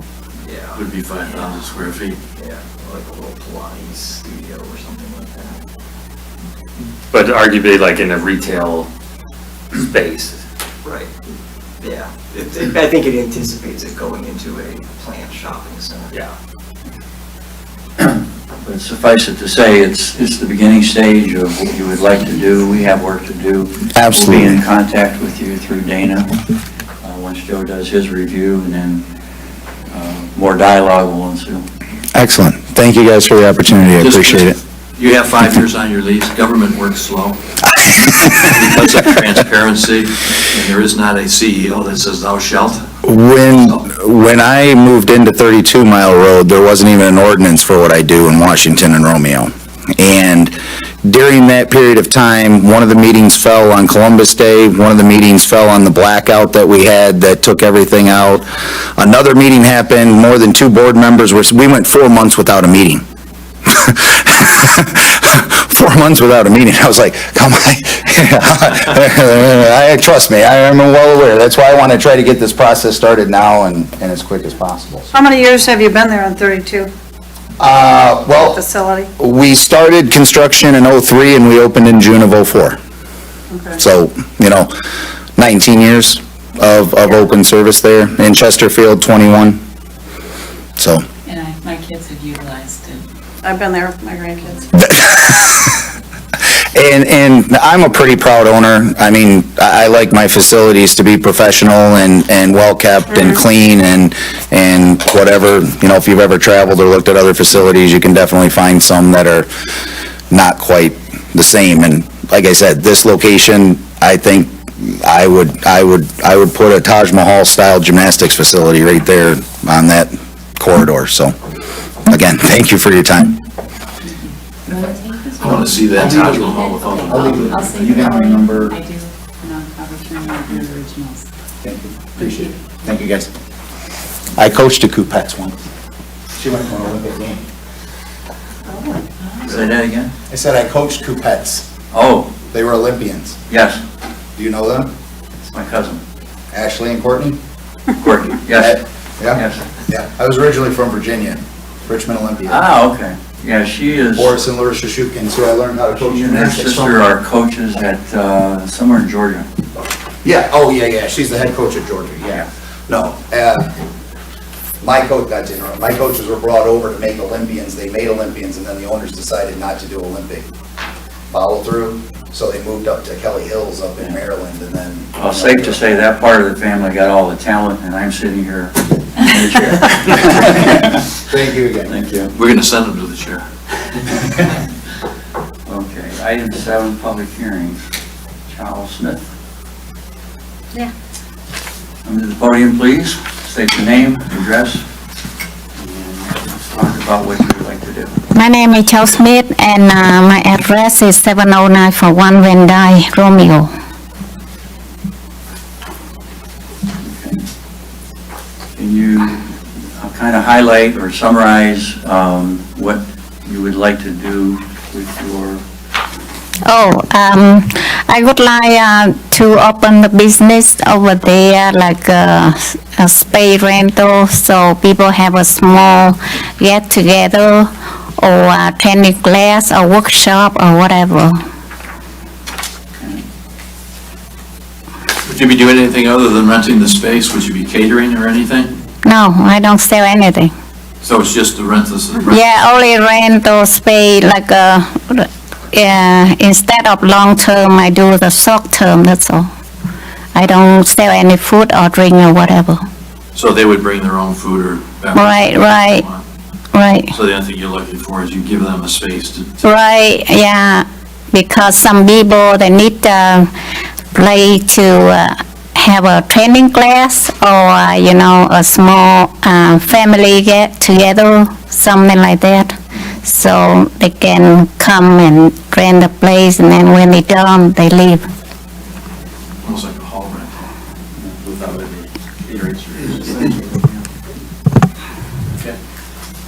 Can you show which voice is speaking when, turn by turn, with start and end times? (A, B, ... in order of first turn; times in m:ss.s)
0:00.4-0:01.6 A
0:00.7-0:02.2 B
0:02.4-0:05.6 A
0:07.1-0:08.9 C
0:09.7-0:10.4 C
0:10.8-0:16.3 A
0:18.6-0:26.3 D
0:23.9-0:24.6 E
0:27.0-0:29.0 D
0:29.9-0:31.7 D
0:32.1-0:34.6 E
0:34.0-0:37.4 B
0:37.7-0:38.4 E
0:38.2-0:42.9 B
0:43.0-0:50.5 E
0:51.0-1:03.0 E
1:03.7-1:15.1 E
1:15.1-1:16.9 F
1:17.6-1:18.6 E
1:18.4-1:19.1 F
1:19.2-1:22.8 E
1:23.5-1:23.8 F
1:23.8-1:24.7 E
1:25.4-1:29.6 E
1:30.8-1:31.0 E
1:31.2-1:33.0 G
1:33.4-1:34.6 F
1:34.8-1:35.8 E
1:36.7-1:49.5 E
1:43.1-1:43.4 F
1:50.3-2:01.4 E
2:02.1-2:03.4 E
2:04.0-2:11.3 G
2:05.4-2:07.5 B
2:05.9-2:08.8 E
2:11.6-2:13.3 E
2:12.2-2:12.8 G
2:14.3-2:15.5 E
2:16.4-2:17.4 E
2:18.7-2:19.7 G
2:19.4-2:20.1 D
2:20.3-2:21.7 E
2:21.9-2:22.3 D
2:22.5-2:23.4 E
2:23.5-2:23.8 D
2:24.4-2:24.9 E
2:25.4-2:26.0 D
2:26.5-2:27.4 E
2:28.0-2:29.6 D
2:28.5-2:32.6 E
2:32.5-2:34.4 D
2:34.2-2:37.0 E
2:35.9-2:39.5 D
2:40.2-2:43.7 E
2:44.8-2:50.5 E
2:51.3-2:55.8 E
2:55.2-3:01.0 D
3:01.2-3:01.9 E
3:01.8-3:02.3 D
3:02.3-3:03.4 B
3:05.6-3:07.9 D
3:08.4-3:09.3 D
3:12.0-3:14.8 D
3:15.8-3:18.2 D
3:18.3-3:23.7 H
3:27.0-3:27.4 D
3:28.7-3:35.6 D
3:36.6-3:51.4 H
3:55.2-3:58.7 B
3:59.0-4:00.5 H
4:01.0-4:02.4 B
4:02.2-4:09.5 H
4:10.3-4:12.8 H
4:13.3-4:16.2 B
4:15.1-4:16.0 H
4:16.7-4:17.1 H
4:17.1-4:19.5 B
4:19.6-4:23.5 H
4:24.1-4:38.3 H
4:39.6-4:40.7 B
4:41.4-4:43.8 B
4:43.4-4:43.7 A